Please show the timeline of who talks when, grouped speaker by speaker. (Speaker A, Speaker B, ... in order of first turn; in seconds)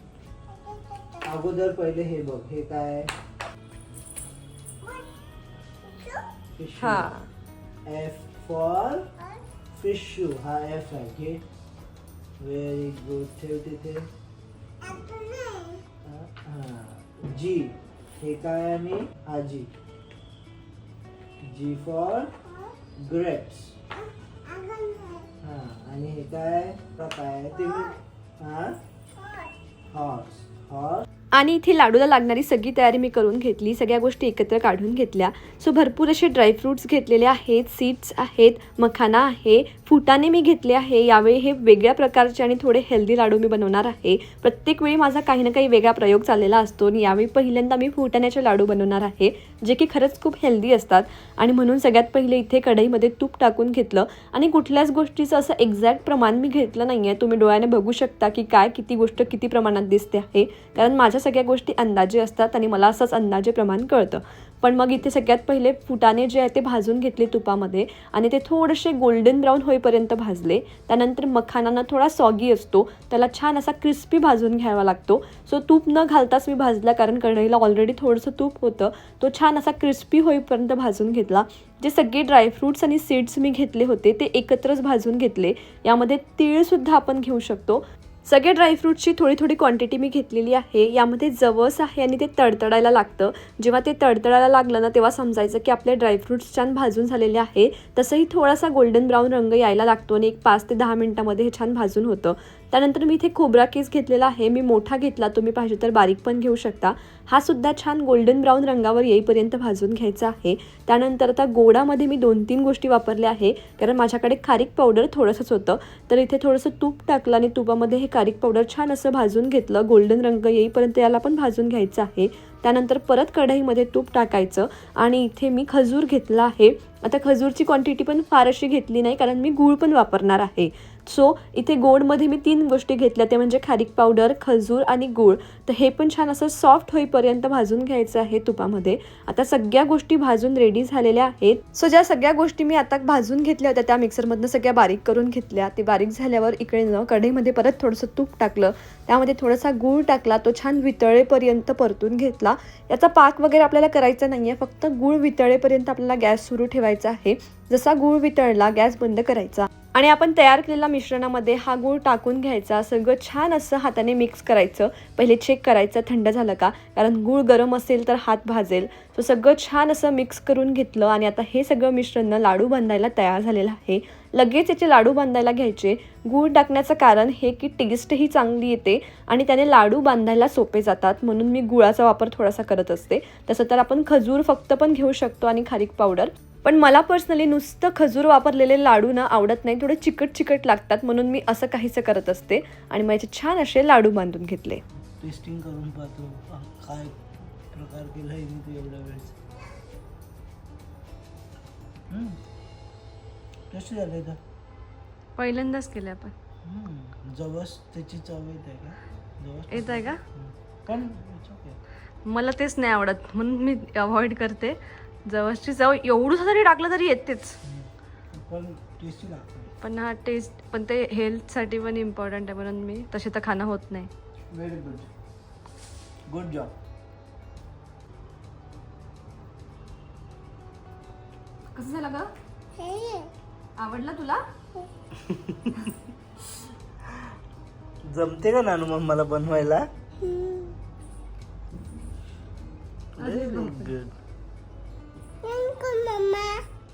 Speaker A: 0.5-1.3, 4.8-5.3, 5.8-6.3, 14.8-15.8, 24.5-25.3, 27.6-28.0, 29.2-29.5, 232.8-233.3, 240.2-240.8, 245.4-246.6
Speaker B: 1.2-3.1, 6.6-7.1, 7.9-9.1, 9.7-11.4, 12.4-14.1, 16.0-19.7, 21.4-22.3, 23.0-23.8, 25.4-28.8, 29.9-31.1, 195.2-197.2, 197.7-199.3, 202.1-202.4, 203.7-204.4, 206.7-211.8, 217.7-219.7, 224.5-225.1, 226.3-226.7, 238.1-239.9, 243.2-244.1
Speaker C: 6.8-7.3, 31.3-194.8, 205.4-206.3, 209.7-210.2, 212.3-217.6, 219.8-224.1, 231.7-232.3, 233.8-234.5, 243.2-243.9